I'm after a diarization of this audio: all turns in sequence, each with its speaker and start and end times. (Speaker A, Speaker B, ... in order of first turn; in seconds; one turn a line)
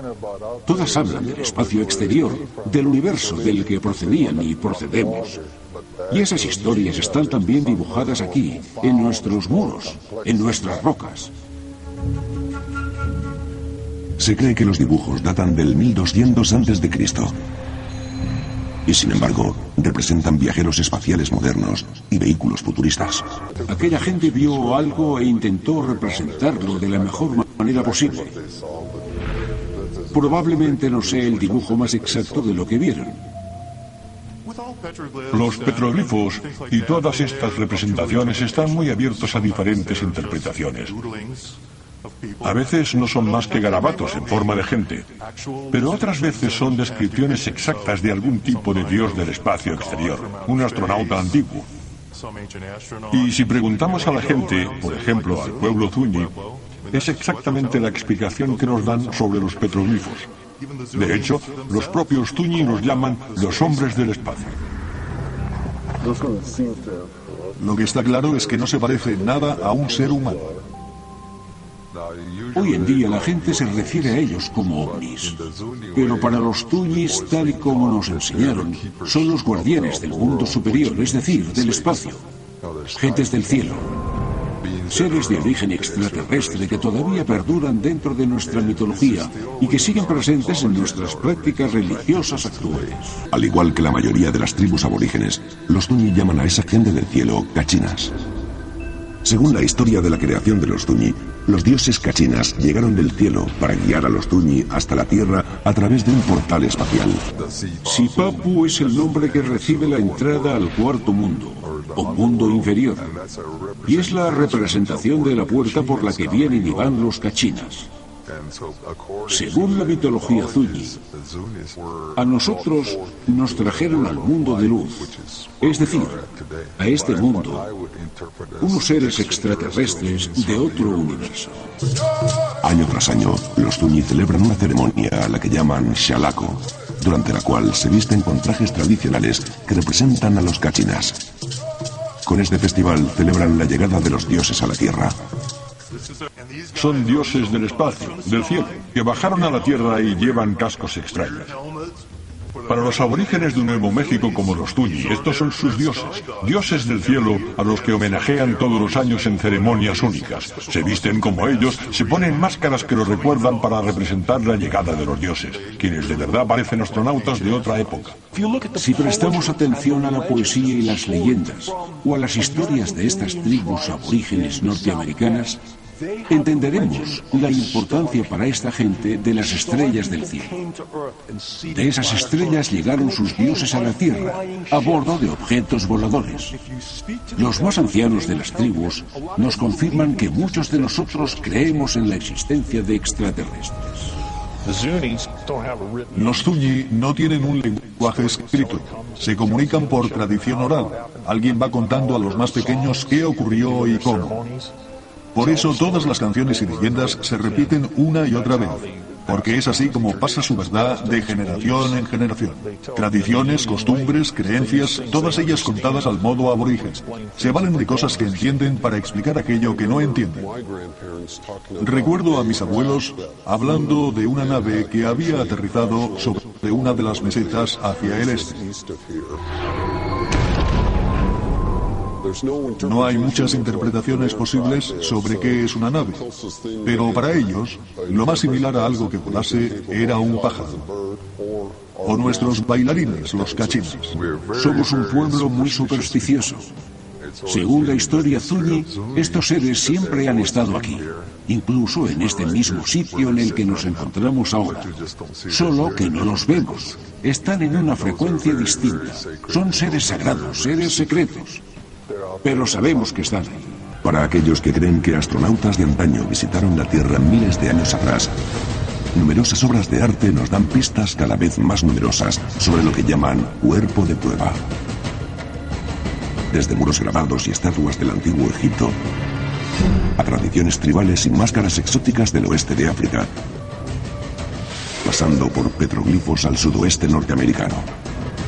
Speaker A: 0.7-5.4
Speaker A: 6.1-11.3
Speaker B: 14.2-17.4
Speaker B: 18.9-23.3
Speaker A: 23.7-28.3
Speaker A: 30.1-33.2
Speaker C: 35.3-41.0
Speaker C: 42.4-45.0
Speaker C: 45.7-51.7
Speaker C: 53.1-56.3
Speaker C: 56.9-60.3
Speaker C: 60.9-64.6
Speaker D: 67.6-70.5
Speaker A: 72.5-75.4
Speaker A: 76.0-82.2
Speaker A: 82.9-83.9
Speaker A: 84.9-93.1
Speaker B: 93.3-98.1
Speaker B: 99.2-107.2
Speaker A: 107.8-113.1
Speaker A: 113.8-117.9
Speaker A: 119.3-121.0
Speaker A: 122.2-125.1
Speaker A: 125.6-126.2
Speaker A: 126.8-127.7
Speaker A: 128.6-131.7
Speaker B: 132.6-141.2
Speaker B: 142.2-145.2
Speaker C: 146.7-151.5
Speaker C: 152.7-168.2
Speaker A: 168.4-175.6
Speaker A: 176.3-180.6
Speaker A: 181.7-186.6
Speaker A: 187.4-193.9
Speaker D: 196.1-204.4
Speaker D: 205.3-220.5
Speaker D: 221.8-228.6
Speaker D: 232.8-236.2
Speaker D: 236.8-240.8
Speaker D: 242.0-244.2
Speaker A: 244.6-246.7
Speaker A: 247.5-254.9
Speaker A: 255.5-261.6
Speaker A: 262.4-263.8
Speaker B: 264.0-268.4
Speaker B: 269.1-274.6
Speaker B: 276.5-279.0
Speaker B: 280.1-283.3
Speaker B: 285.0-287.9